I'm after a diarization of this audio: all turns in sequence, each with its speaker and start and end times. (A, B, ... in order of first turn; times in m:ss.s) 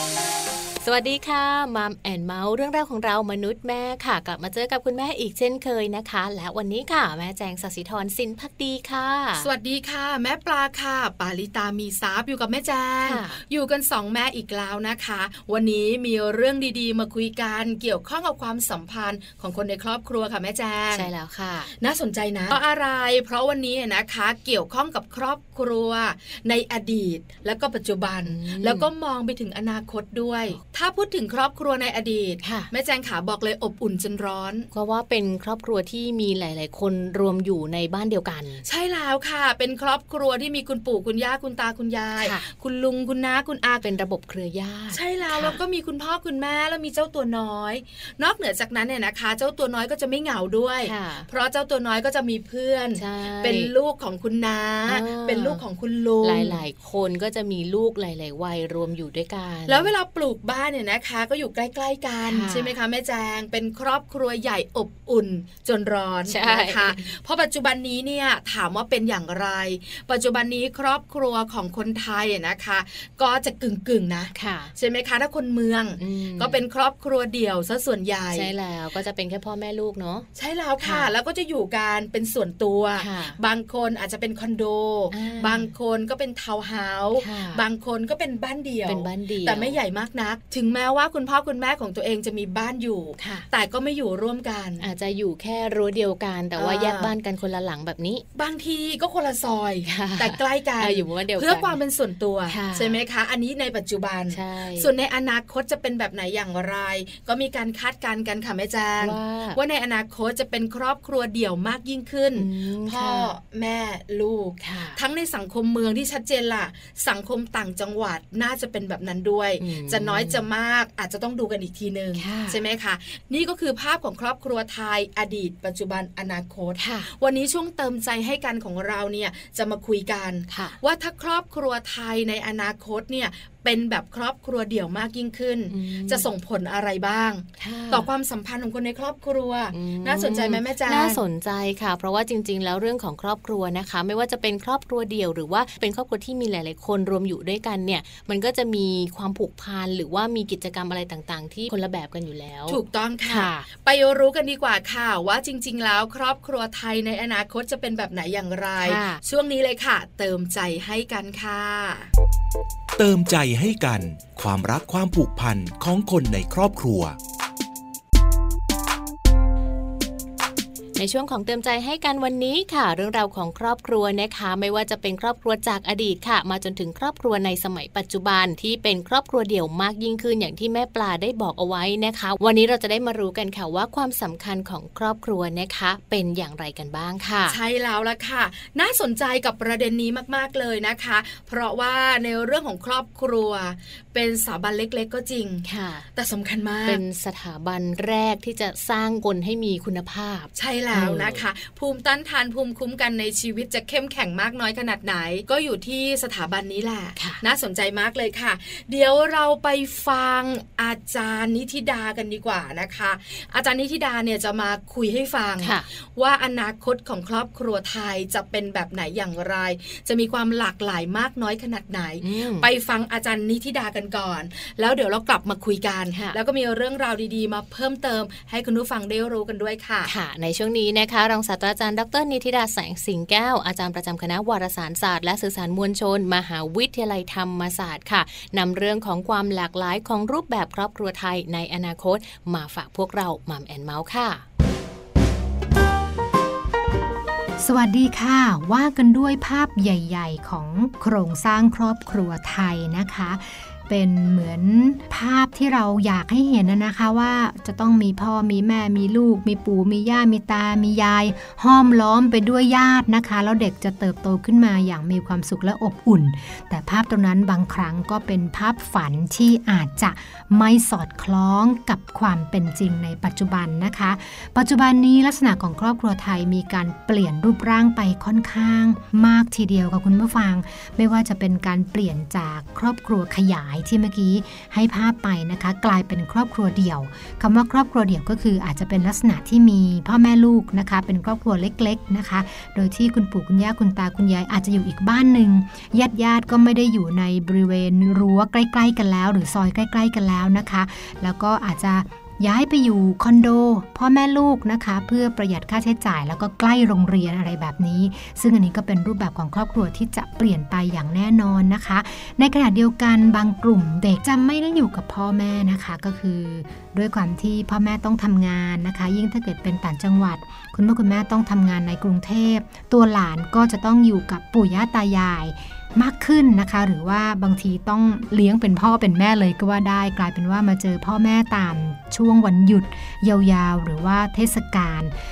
0:00.8-0:09.5 A
0:09.4-0:21.1 B
0:13.0-0:13.4 A
0:20.9-0:21.7 A
0:21.8-0:34.7 B
0:28.3-0:28.9 A
0:32.4-0:32.7 A
0:34.7-0:38.6 A
0:38.6-0:43.8 B
0:42.2-0:42.5 A
0:43.8-0:45.6 A
0:44.9-0:56.6 B
0:50.8-0:51.3 A
0:53.0-0:53.7 A
0:54.9-0:55.6 A
0:56.2-0:59.9 A
0:59.7-1:18.5 B
1:02.3-1:02.8 A
1:06.3-1:07.0 A
1:14.4-1:14.7 A
1:16.0-1:16.6 A
1:18.3-1:20.3 A
1:20.4-1:34.8 B
1:20.8-1:21.1 A
1:23.0-1:23.4 A
1:25.1-1:25.7 A
1:27.2-1:27.6 A
1:28.9-1:29.8 A
1:33.2-1:33.5 A
1:34.8-1:38.2 A
1:36.6-1:37.1 B
1:38.4-2:21.2 B
1:39.9-1:41.8 A
1:42.5-1:43.0 A
1:44.3-1:44.9 A
1:49.0-1:49.6 A
1:52.4-1:53.3 A
1:54.6-1:55.0 A
1:59.6-2:00.4 A
2:02.2-2:02.6 A
2:06.8-2:07.1 A
2:10.5-2:10.8 A
2:15.7-2:16.3 A
2:17.6-2:18.1 A
2:19.7-2:33.7 A
2:32.7-2:42.1 B
2:38.8-2:39.2 A
2:43.0-2:47.2 C
2:51.0-3:07.6 A
3:07.5-3:17.0 B
3:15.6-3:16.1 A
3:16.9-3:21.4 A
3:20.6-3:50.1 B
3:27.2-3:27.4 A
3:35.6-3:35.9 A
3:42.2-3:42.7 A
3:50.0-4:04.4 A
4:07.6-5:35.2 D